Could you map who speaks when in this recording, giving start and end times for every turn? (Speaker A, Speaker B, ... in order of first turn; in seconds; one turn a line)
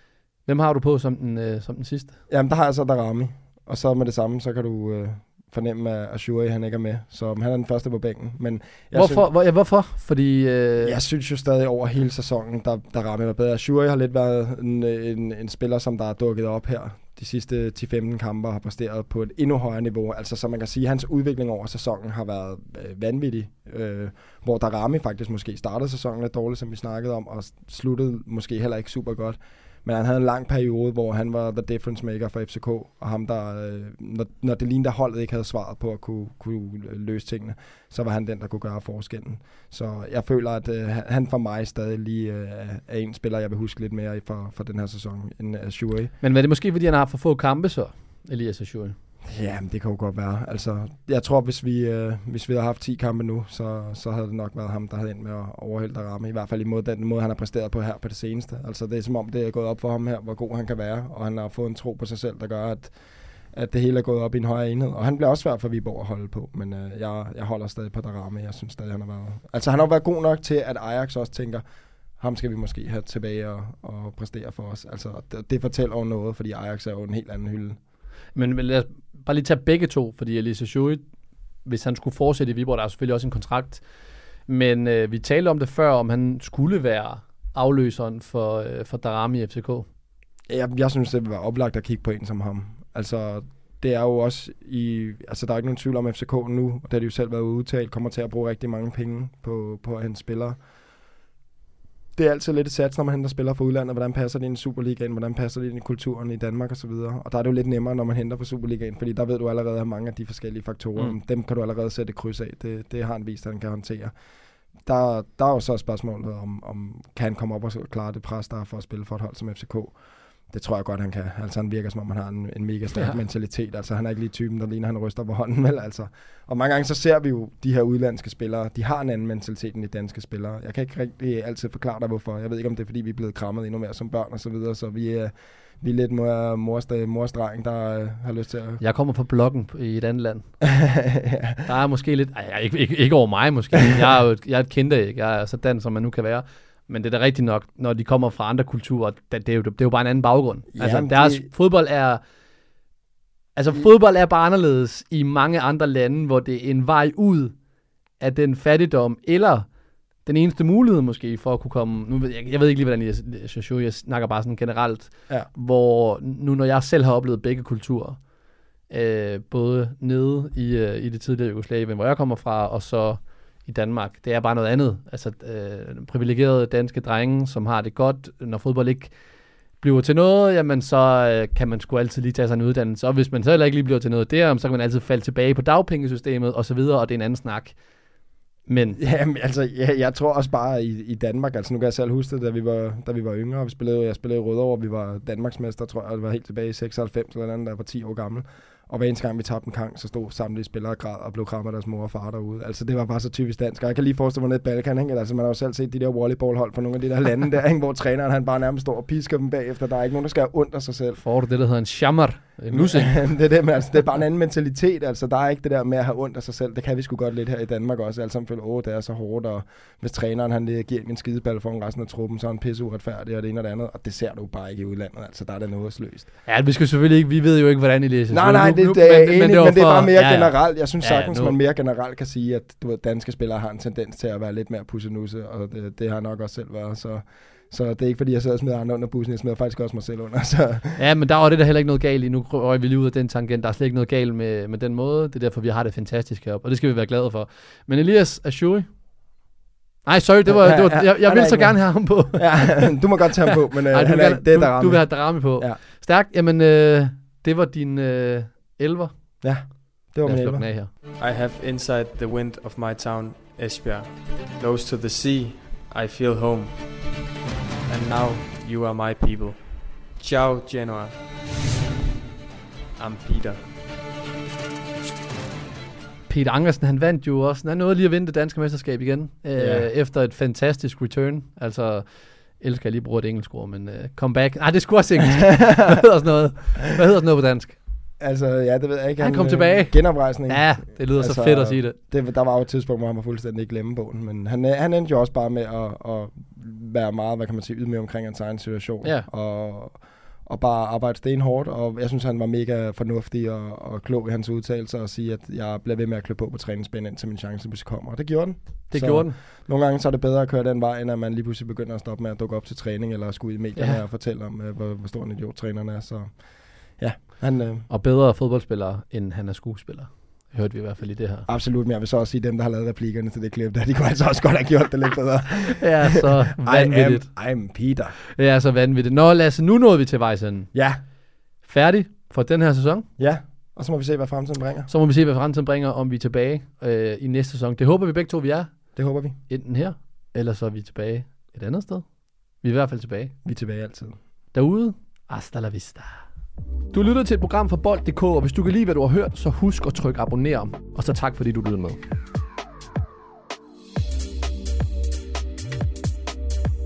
Speaker A: 0.5-2.2
Speaker B: 2.3-9.3
Speaker A: 8.9-11.0
Speaker B: 10.8-46.1
Speaker A: 46.2-49.0
Speaker B: 49.3-71.6
Speaker B: 72.2-77.8
Speaker A: 78.3-81.0
Speaker A: 81.6-83.9
Speaker A: 84.4-89.9
Speaker B: 90.5-100.6
Speaker B: 102.1-114.1
Speaker B: 114.8-138.8
Speaker A: 138.8-140.5
Speaker B: 140.6-141.6
Speaker A: 141.6-152.2
Speaker B: 150.7-151.5
Speaker A: 153.6-157.6
Speaker A: 158.2-159.7
Speaker A: 160.2-168.3
Speaker A: 168.9-179.2
Speaker A: 179.8-187.8
Speaker A: 188.7-189.0
Speaker B: 188.9-211.2
Speaker A: 211.2-213.4
Speaker B: 212.7-226.3
Speaker A: 226.4-231.6
Speaker B: 228.3-241.0
Speaker A: 241.0-248.9
Speaker A: 250.1-253.0
Speaker B: 250.4-255.8
Speaker A: 253.9-259.7
Speaker B: 259.4-260.7
Speaker A: 260.2-260.9
Speaker C: 261.2-267.2
Speaker C: 267.9-271.2
Speaker C: 272.9-273.7
Speaker A: 276.3-287.8
Speaker B: 279.6-279.9
Speaker B: 285.4-285.9
Speaker B: 288.2-317.9
Speaker A: 289.2-292.0
Speaker A: 299.0-299.3
Speaker A: 308.9-309.4
Speaker A: 313.8-314.0
Speaker A: 317.9-321.5
Speaker B: 321.4-328.2
Speaker A: 325.8-327.7
Speaker A: 328.4-330.7
Speaker B: 330.7-331.0
Speaker A: 331.6-333.1
Speaker B: 333.2-334.9
Speaker A: 334.9-339.0
Speaker B: 338.9-339.4
Speaker A: 339.5-343.3
Speaker B: 343.4-344.2
Speaker A: 344.5-346.2
Speaker A: 346.9-352.0